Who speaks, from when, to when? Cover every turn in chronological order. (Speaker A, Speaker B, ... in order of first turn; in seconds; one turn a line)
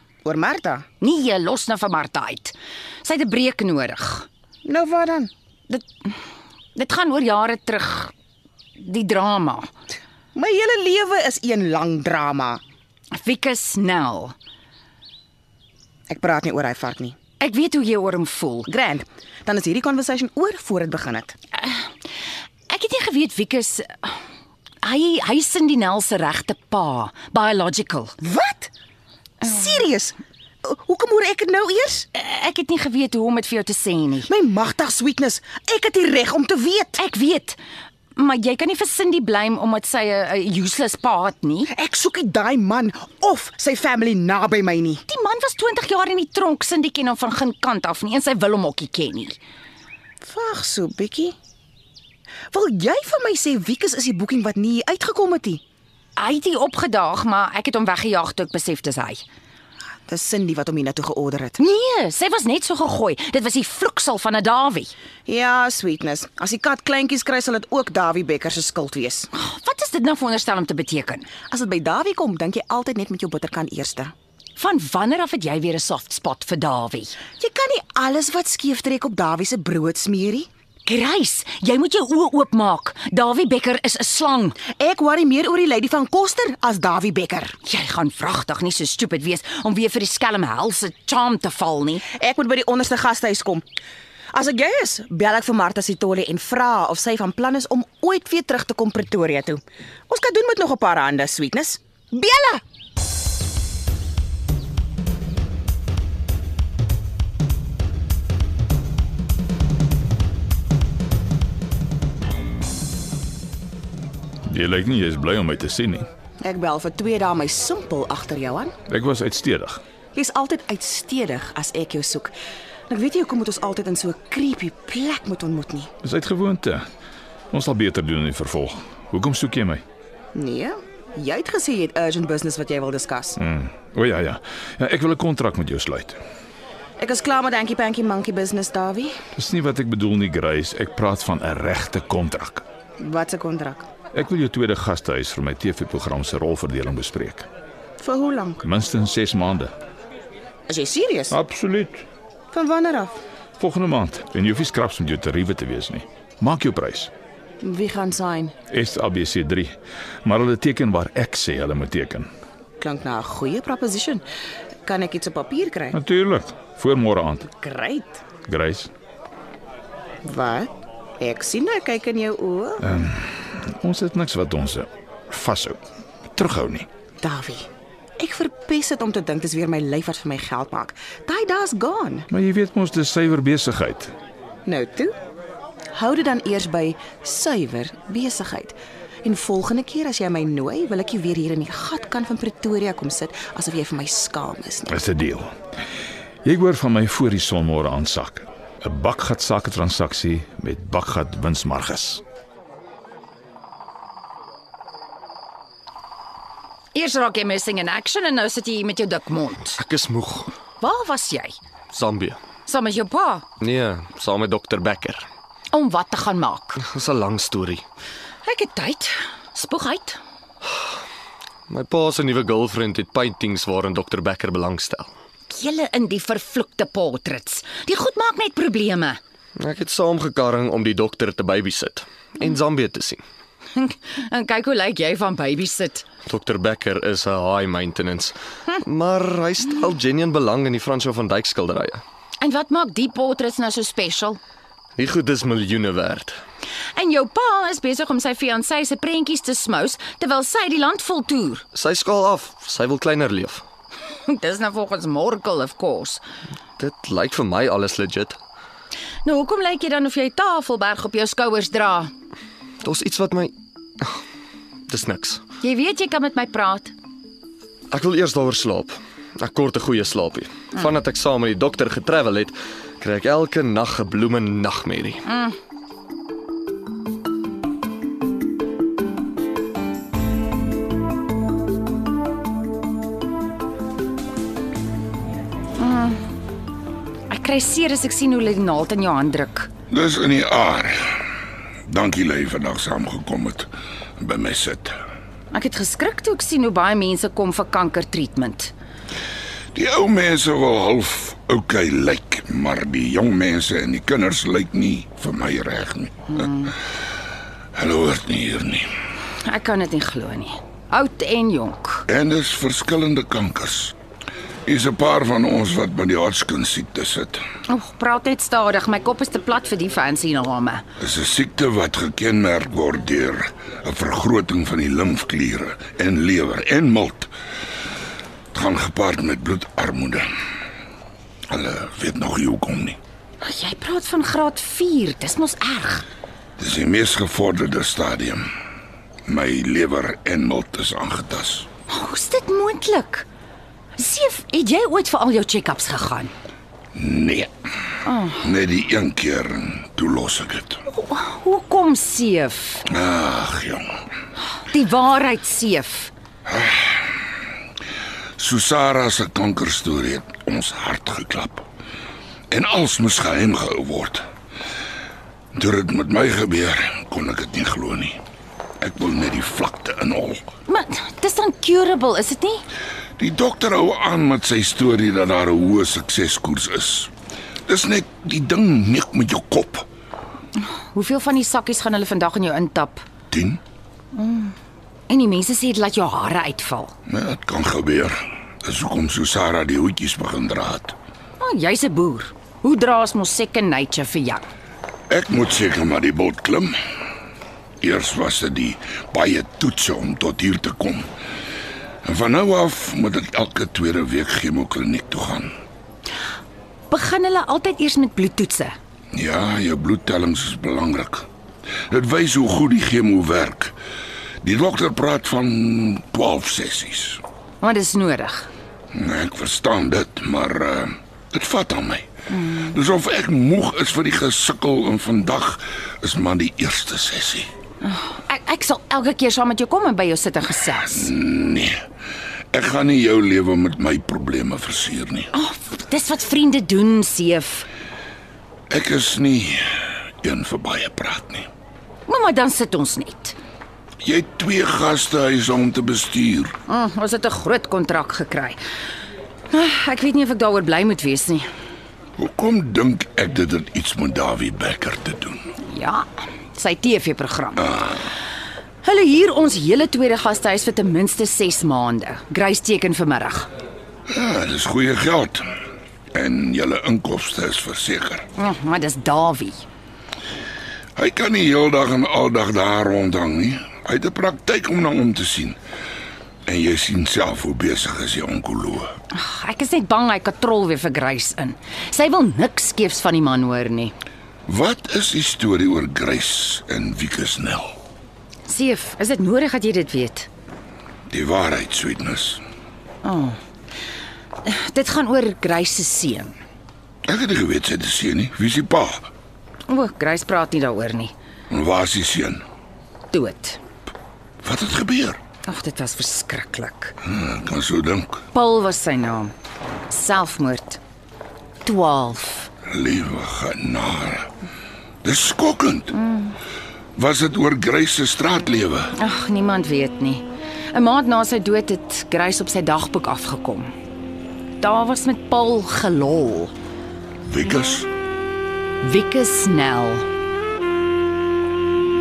Speaker A: 0.2-0.8
Speaker B: 1.0-4.3
Speaker A: 4.7-5.3
Speaker B: 5.7-6.2
Speaker B: 6.8-8.1
Speaker B: 8.8-9.7
Speaker A: 10.3-12.6
Speaker B: 13.1-14.3
Speaker A: 16.1-17.2
Speaker B: 17.4-18.7
Speaker A: 18.7-21.4
Speaker B: 22.7-24.2
Speaker B: 24.8-28.2
Speaker A: 28.2-28.7
Speaker A: 29.4-32.1
Speaker B: 32.1-34.3
Speaker A: 34.3-37.0
Speaker B: 37.0-37.6
Speaker B: 38.1-41.7
Speaker A: 41.7-45.0
Speaker B: 45.1-49.4
Speaker A: 50.2-51.4
Speaker A: 52.5-55.6
Speaker B: 56.2-59.2
Speaker A: 60.1-61.6
Speaker B: 61.6-64.9
Speaker A: 65.3-69.3
Speaker B: 69.3-71.3
Speaker A: 71.5-74.1
Speaker B: 74.6-77.2
Speaker A: 77.4-80.5
Speaker B: 80.9-84.6
Speaker A: 84.8-87.5
Speaker B: 87.6-92.1
Speaker A: 92.1-93.6
Speaker A: 94.3-102.6
Speaker C: 114.5-116.1
Speaker A: 116.4-118.7
Speaker C: 118.9-119.8
Speaker A: 120.2-122.3
Speaker A: 122.9-125.9
Speaker C: 126.0-126.8
Speaker C: 127.5-129.8
Speaker A: 130.3-133.4
Speaker C: 133.4-136.2
Speaker A: 137.0-139.2
Speaker C: 139.3-142.7
Speaker A: 143.0-143.9
Speaker C: 144.1-147.5
Speaker A: 148.0-148.6
Speaker C: 148.6-149.7
Speaker A: 150.7-151.4
Speaker C: 151.3-152.1
Speaker A: 152.5-153.2
Speaker C: 153.6-157.1
Speaker A: 157.6-158.6
Speaker C: 158.7-162.3
Speaker A: 162.8-164.2
Speaker A: 164.8-166.0
Speaker C: 165.9-167.5
Speaker A: 167.6-168.2
Speaker C: 168.5-168.9
Speaker A: 170.2-172.9
Speaker C: 172.8-175.8
Speaker C: 176.3-176.9
Speaker A: 177.2-177.7
Speaker A: 178.2-182.3
Speaker C: 182.3-184.1
Speaker A: 184.7-185.2
Speaker A: 185.9-194.9
Speaker C: 194.9-195.5
Speaker C: 196.4-202.2
Speaker B: 206.9-209.8
Speaker D: 209.8-210.5
Speaker B: 210.8-211.6
Speaker D: 211.9-212.4
Speaker B: 212.7-213.4
Speaker D: 213.6-215.3
Speaker B: 215.7-216.8
Speaker D: 216.8-217.8
Speaker B: 218.4-220.2
Speaker D: 221.7-225.1
Speaker B: 225.5-229.2
Speaker D: 229.6-233.2
Speaker B: 233.8-236.1
Speaker D: 236.3-242.0
Speaker B: 242.4-244.4
Speaker D: 245.0-246.4
Speaker B: 246.9-251.7
Speaker D: 251.7-253.6
Speaker B: 254.2-256.2
Speaker D: 256.8-258.4
Speaker B: 259.2-262.1
Speaker D: 262.8-264.2
Speaker D: 264.9-265.4
Speaker B: 265.6-266.9
Speaker D: 267.9-275.3
Speaker B: 275.3-275.6
Speaker B: 285.8-286.2
Speaker B: 287.3-289.7
Speaker E: 289.9-291.1
Speaker E: 291.9-295.0
Speaker B: 295.5-298.7
Speaker E: 299.7-306.6
Speaker B: 306.4-306.7
Speaker E: 307.8-308.9
Speaker B: 309.4-312.1
Speaker E: 312.1-313.9
Speaker E: 314.7-317.4
Speaker B: 317.7-320.8
Speaker E: 321.0-327.3
Speaker E: 328.5-330.3
Speaker E: 331.5-333.0
Speaker B: 333.4-336.1
Speaker E: 336.6-338.5
Speaker E: 339.3-341.7
Speaker B: 341.9-343.3
Speaker B: 344.0-346.3
Speaker E: 346.9-347.5
Speaker B: 348.0-348.5
Speaker E: 348.4-350.8
Speaker B: 350.9-352.9
Speaker E: 352.9-354.0
Speaker B: 354.6-356.1
Speaker E: 356.5-357.1
Speaker E: 358.4-361.7
Speaker E: 362.5-364.3
Speaker E: 365.5-368.2
Speaker E: 368.8-370.5
Speaker B: 370.7-372.6
Speaker E: 373.2-377.1
Speaker E: 377.7-379.9
Speaker B: 380.8-383.0
Speaker E: 383.3-383.6
Speaker B: 384.1-384.5
Speaker B: 385.1-386.9
Speaker E: 387.1-390.9
Speaker B: 391.4-394.4
Speaker E: 395.1-396.8
Speaker E: 397.8-401.1
Speaker E: 402.0-405.5
Speaker B: 406.9-408.8
Speaker E: 409.1-411.3
Speaker E: 411.9-413.7
Speaker E: 414.4-417.2
Speaker B: 417.6-418.5
Speaker E: 418.9-427.5
Speaker B: 427.8-431.1
Speaker E: 431.0-431.8
Speaker E: 432.5-435.3
Speaker B: 435.3-437.7
Speaker E: 438.7-441.5
Speaker B: 442.1-443.4
Speaker E: 444.0-446.5
Speaker B: 446.7-448.6
Speaker B: 449.5-451.5
Speaker E: 452.2-455.5
Speaker B: 455.6-457.9
Speaker B: 458.8-463.5
Speaker E: 464.1-465.5
Speaker E: 466.1-468.3
Speaker B: 468.4-469.6
Speaker E: 471.0-475.6
Speaker E: 476.5-478.9
Speaker B: 479.1-483.9
Speaker E: 484.5-487.8
Speaker B: 488.5-490.3
Speaker E: 491.1-492.4
Speaker B: 493.0-493.4
Speaker B: 494.4-496.4
Speaker E: 497.1-499.1
Speaker B: 499.7-501.1
Speaker E: 501.5-502.4
Speaker B: 503.1-503.6
Speaker E: 504.4-505.2
Speaker B: 505.5-506.9
Speaker E: 507.0-508.2
Speaker B: 508.3-509.3
Speaker B: 509.9-510.8
Speaker B: 511.6-512.5
Speaker E: 512.7-514.3
Speaker E: 515.0-516.0
Speaker B: 516.0-516.3
Speaker E: 517.0-518.9
Speaker B: 519.0-523.7
Speaker B: 524.6-526.5
Speaker E: 527.2-527.9
Speaker B: 528.8-530.1